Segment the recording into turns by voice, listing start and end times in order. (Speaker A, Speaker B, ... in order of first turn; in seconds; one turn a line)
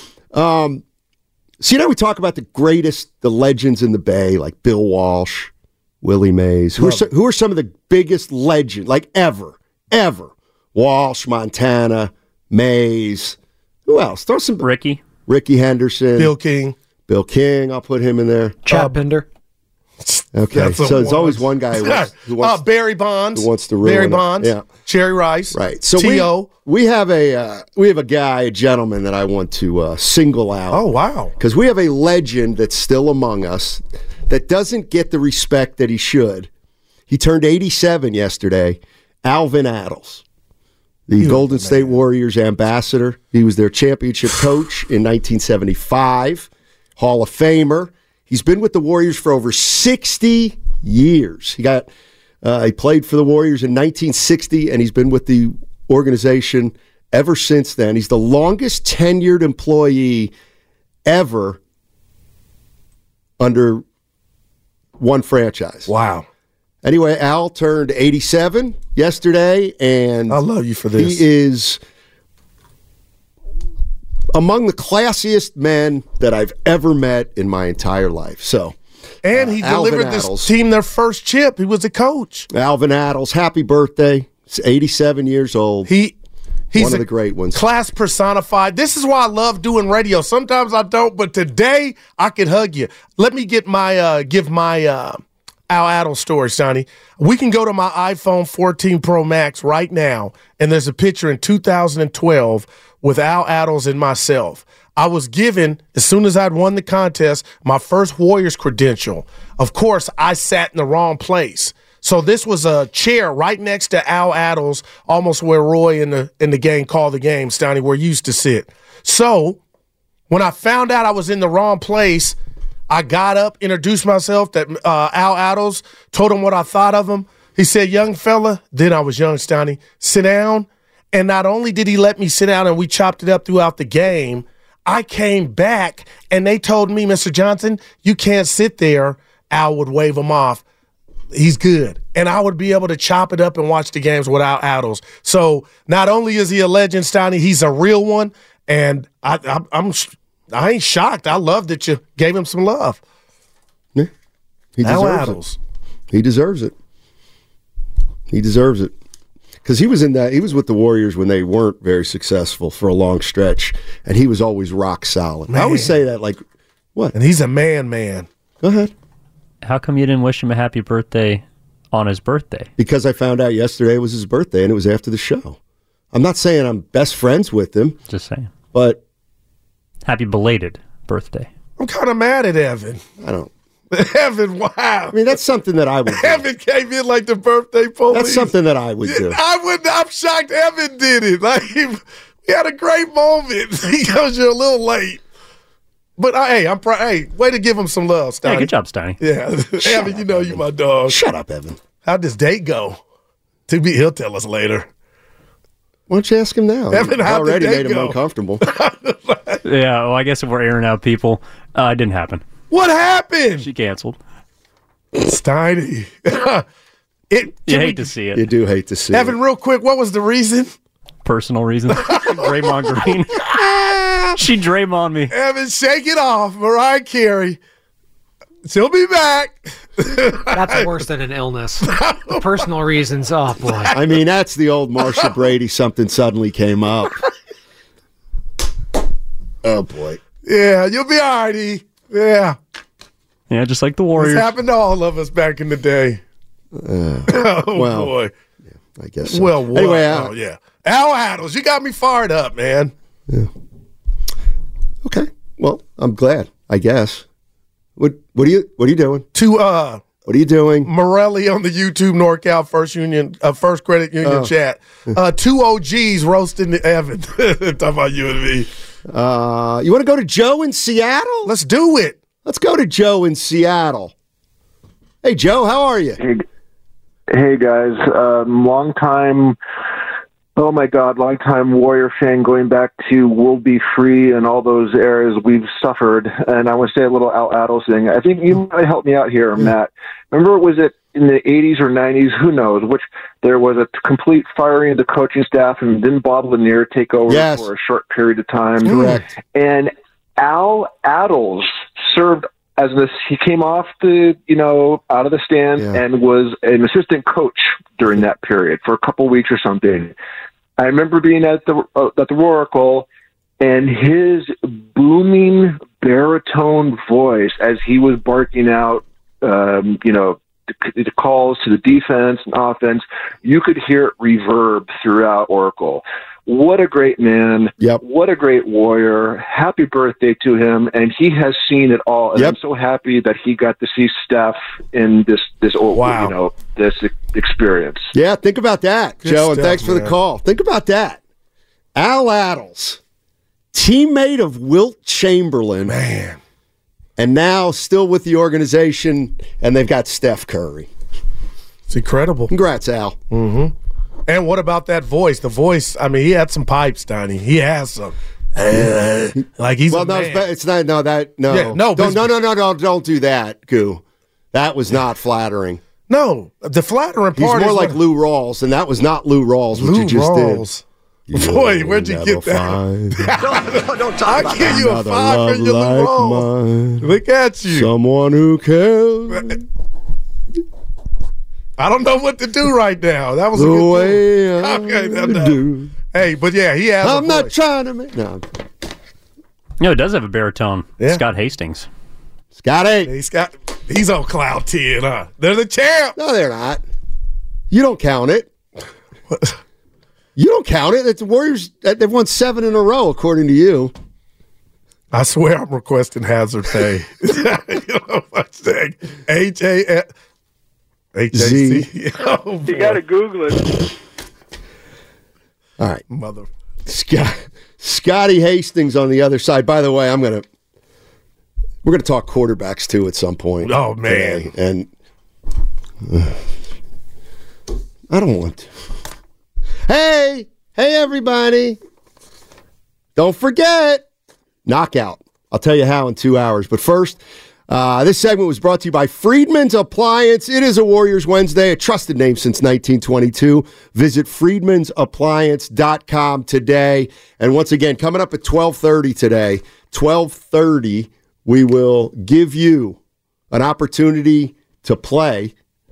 Speaker A: 0.3-0.8
Speaker A: 1.6-5.5
Speaker A: 6.0-14.7
Speaker B: 6.8-7.0
Speaker C: 14.6-15.0
Speaker A: 15.2-16.3
Speaker B: 16.1-16.8
Speaker A: 17.1-18.6
Speaker D: 18.6-19.2
Speaker B: 18.7-19.0
Speaker B: 20.0-26.5
Speaker A: 20.3-22.6
Speaker A: 23.3-24.7
Speaker A: 25.5-30.8
Speaker B: 30.7-31.3
Speaker A: 31.4-36.5
Speaker A: 37.1-40.2
Speaker A: 41.1-51.9
Speaker B: 41.2-42.0
Speaker A: 52.4-60.3
Speaker A: 61.0-61.6
Speaker A: 63.4-63.8
Speaker A: 65.0-65.9
Speaker B: 65.9-66.2
Speaker A: 66.8-70.4
Speaker B: 70.3-71.2
Speaker A: 71.0-71.8
Speaker A: 74.3-78.8
Speaker B: 79.2-82.5
Speaker A: 79.3-80.5
Speaker A: 82.5-85.9
Speaker B: 85.9-86.1
Speaker B: 86.7-119.6
Speaker A: 86.7-87.6
Speaker B: 120.3-122.3
Speaker B: 122.9-140.6
Speaker B: 141.3-153.0
Speaker A: 154.8-155.4
Speaker B: 154.8-155.6
Speaker A: 156.1-156.7
Speaker A: 158.3-158.9
Speaker A: 159.6-166.4
Speaker B: 165.5-165.9
Speaker B: 167.1-168.3
Speaker A: 168.6-168.9
Speaker C: 169.6-172.7
Speaker A: 172.8-175.6
Speaker A: 176.1-178.0
Speaker C: 178.1-178.5
Speaker A: 178.7-179.0
Speaker C: 180.0-181.5
Speaker B: 181.8-183.0
Speaker A: 183.2-183.5
Speaker B: 183.9-185.2
Speaker A: 185.1-186.4
Speaker B: 186.1-188.5
Speaker A: 188.1-189.4
Speaker B: 189.1-195.2
Speaker B: 196.2-201.2
Speaker C: 198.4-199.2
Speaker A: 199.8-201.8
Speaker B: 202.0-203.0
Speaker B: 203.7-204.9
Speaker A: 206.1-208.7
Speaker B: 206.9-209.6
Speaker C: 209.6-212.4
Speaker B: 212.7-213.7
Speaker C: 213.6-214.2
Speaker B: 215.2-216.6
Speaker B: 217.3-218.1
Speaker C: 217.7-218.4
Speaker A: 218.3-219.4
Speaker B: 219.1-220.7
Speaker C: 221.2-223.5
Speaker B: 221.9-222.4
Speaker C: 224.3-225.3
Speaker B: 225.3-227.6
Speaker B: 228.6-230.9
Speaker D: 230.5-234.0
Speaker B: 231.8-232.4
Speaker A: 233.9-237.2
Speaker A: 239.6-240.2
Speaker B: 240.4-242.6
Speaker C: 243.5-244.5
Speaker B: 244.2-246.2
Speaker A: 246.7-248.1
Speaker B: 247.3-248.3
Speaker A: 248.9-250.3
Speaker B: 249.3-252.9
Speaker A: 255.0-257.2
Speaker A: 258.0-259.3
Speaker B: 259.3-260.1
Speaker A: 260.2-260.9
Speaker B: 260.8-268.7
Speaker A: 264.2-264.5
Speaker A: 269.1-271.5
Speaker B: 271.4-272.2
Speaker A: 272.4-274.1
Speaker A: 275.2-276.2
Speaker E: 277.3-279.6
Speaker E: 280.5-310.1
Speaker A: 297.3-297.7
Speaker A: 298.8-299.2
Speaker E: 310.8-313.1
Speaker E: 313.6-338.1
Speaker B: 335.9-336.3
Speaker A: 338.1-341.2
Speaker B: 339.2-340.1
Speaker A: 341.9-343.0
Speaker A: 343.7-345.9
Speaker B: 345.9-346.4
Speaker A: 347.2-350.9
Speaker B: 351.9-352.5
Speaker A: 352.5-353.2
Speaker B: 353.3-353.7
Speaker B: 354.3-360.5
Speaker A: 358.7-358.9
Speaker A: 359.9-365.8
Speaker B: 361.5-362.4
Speaker B: 366.1-368.0
Speaker A: 367.3-370.6
Speaker B: 369.8-376.5
Speaker A: 371.3-377.1
Speaker B: 377.0-377.9
Speaker A: 377.7-379.6
Speaker B: 381.8-385.6
Speaker A: 383.5-385.9
Speaker B: 386.1-387.5
Speaker A: 387.0-388.4
Speaker C: 389.8-391.9
Speaker A: 392.5-393.1
Speaker B: 393.1-396.1
Speaker A: 396.1-396.8
Speaker A: 397.7-398.5
Speaker A: 400.4-403.9
Speaker B: 405.1-410.1
Speaker B: 411.1-413.0
Speaker A: 411.3-411.9
Speaker E: 412.7-413.6
Speaker B: 416.1-416.5
Speaker A: 416.9-420.4
Speaker A: 421.8-424.9
Speaker B: 423.6-424.5
Speaker A: 426.0-426.4
Speaker A: 428.1-428.7
Speaker A: 429.9-431.8
Speaker A: 433.1-434.1
Speaker A: 434.6-453.0
Speaker A: 453.5-455.5